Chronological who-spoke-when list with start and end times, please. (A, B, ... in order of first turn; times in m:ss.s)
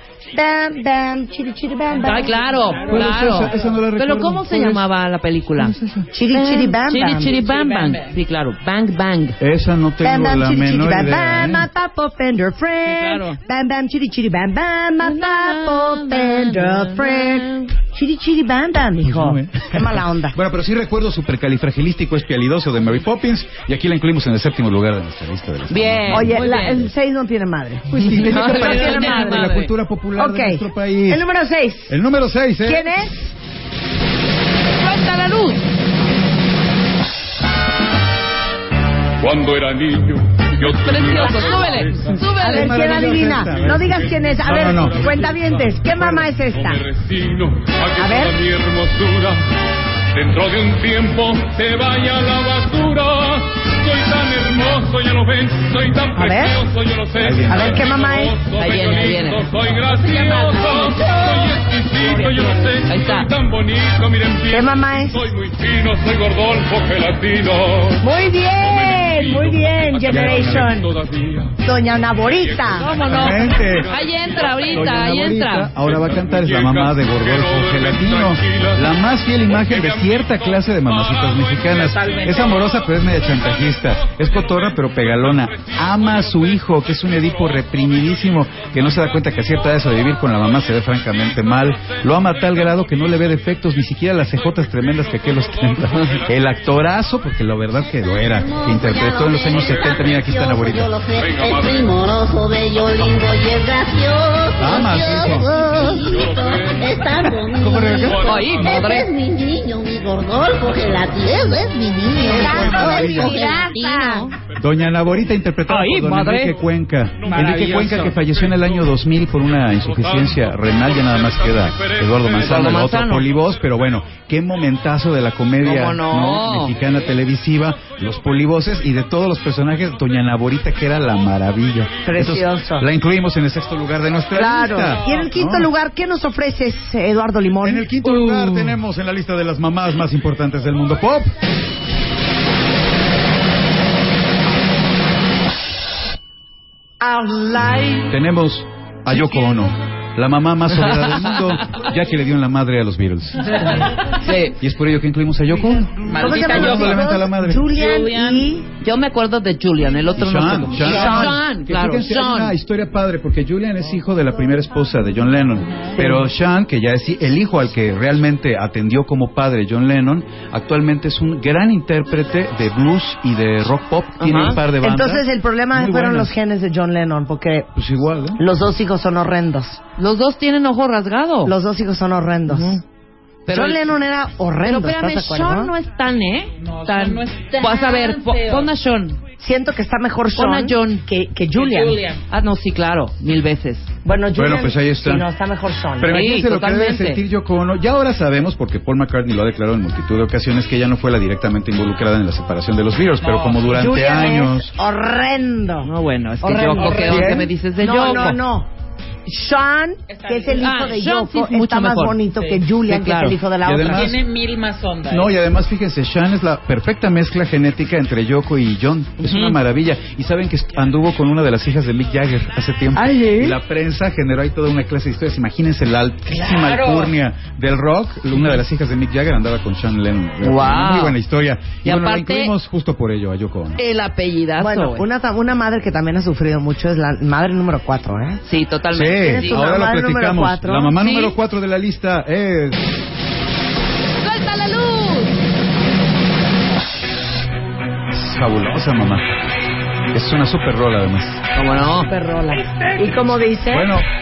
0:00.3-0:02.4 A
0:02.0-0:03.8 B
0:02.0-0:05.8 C
0:02.9-0:04.9 D
0:05.6-0:06.1 D
0:06.1-0:07.4 A
0:06.3-0:09.4 C
0:07.3-0:08.2 B
0:09.4-0:11.6 D
0:10.0-0:20.4 A
0:12.8-0:13.4 C
0:15.0-0:17.7 C
0:19.0-0:19.8 D
0:20.3-0:26.4 D
0:25.7-0:26.9 C
0:26.1-0:32.0 A
0:27.9-0:31.2 D
0:28.1-0:29.7 C
0:31.9-0:32.9 D
0:32.6-0:33.3 A
0:34.8-0:35.6 C
0:39.2-0:42.3 E
0:40.7-0:43.2 C
0:42.4-0:46.8 A
0:42.4-0:45.3 D
0:43.2-0:49.4 E
0:47.9-0:48.3 A
0:50.1-1:08.1 E
0:56.1-0:56.6 A
0:57.2-0:57.9 D
0:57.4-0:58.3 A
0:58.5-0:59.5 C
0:59.9-1:01.0 B
1:01.9-1:02.4 B
1:02.0-1:02.4 A
1:02.9-1:03.3 C
1:04.5-1:05.3 A
1:08.0-1:10.9 A
1:08.6-1:28.1 E
1:10.1-1:10.8 D
1:11.6-1:13.0 A
1:12.7-1:15.7 C
1:13.1-1:13.9 D
1:14.7-1:41.0 D
1:21.8-1:22.6 B
1:28.6-1:30.2 E
1:31.2-1:33.6 E
1:34.2-1:36.6 E
1:38.2-1:53.7 F
1:39.5-1:40.4 E
1:41.0-1:42.0 E
1:42.9-1:43.2 E
1:44.6-1:45.5 D
1:44.7-1:49.0 E
1:47.6-1:48.3 D
1:48.2-1:49.1 C
1:52.2-1:53.5 D
1:52.2-1:54.3 A
1:53.0-1:54.3 C
1:54.6-2:15.7 D
1:54.7-1:55.3 E
1:55.7-1:56.5 C
1:57.2-2:03.8 E
1:57.3-1:58.2 B
2:02.4-2:03.3 C
2:05.6-2:06.7 C
2:06.7-2:07.2 E
2:07.9-2:08.6 E
2:09.8-2:10.3 E
2:12.0-2:12.9 A
2:14.3-2:18.6 A
2:17.6-2:21.3 D
2:27.0-2:28.1 A
2:28.1-2:34.0 D
2:30.7-2:31.8 C
2:33.5-2:33.8 B
2:34.1-2:34.6 C
2:34.6-2:37.6 D
2:36.0-2:38.5 B
2:36.2-2:38.7 A
2:38.8-2:42.5 C
2:40.2-2:56.3 D
2:40.8-2:41.3 B
2:45.9-2:46.3 A
2:54.2-2:54.6 C
2:54.6-2:57.7 A
2:57.7-2:58.4 D
2:58.4-2:59.8 A
3:00.0-3:01.5 C
3:01.4-3:02.8 A
3:02.5-3:02.8 C
3:03.4-3:03.9 C
3:03.5-3:05.7 A
3:04.6-3:09.2 C
3:06.6-3:08.7 B
3:09.4-3:12.0 A
3:10.4-3:11.0 C
3:11.5-3:12.2 B
3:12.3-3:13.9 C
3:14.0-3:16.2 A
3:14.3-3:15.2 D
3:16.0-3:24.7 D
3:16.0-3:17.2 C
3:23.2-3:24.1 B
3:23.7-3:28.7 A
3:25.8-3:28.4 C
3:27.0-3:27.4 D
3:29.2-3:34.1 A
3:30.1-3:30.9 B
3:30.6-3:32.2 C
3:32.3-3:32.6 B
3:32.8-3:33.4 C
3:33.6-3:34.2 D
3:33.8-3:35.4 B
3:35.1-3:53.8 D
3:39.2-3:39.6 C
3:42.9-3:43.5 C
3:46.3-3:47.1 B
3:50.4-3:51.2 C
3:51.8-3:52.5 C
3:53.8-3:55.0 C
3:54.6-3:58.4 A
3:58.4-3:59.7 C
3:58.9-4:02.8 D
3:59.0-4:01.0 A
4:01.0-4:01.3 C
4:04.2-4:05.4 C
4:08.1-4:09.3 D
4:10.1-4:11.4 D
4:11.5-4:12.1 C
4:12.1-4:14.0 A
4:13.7-4:14.0 D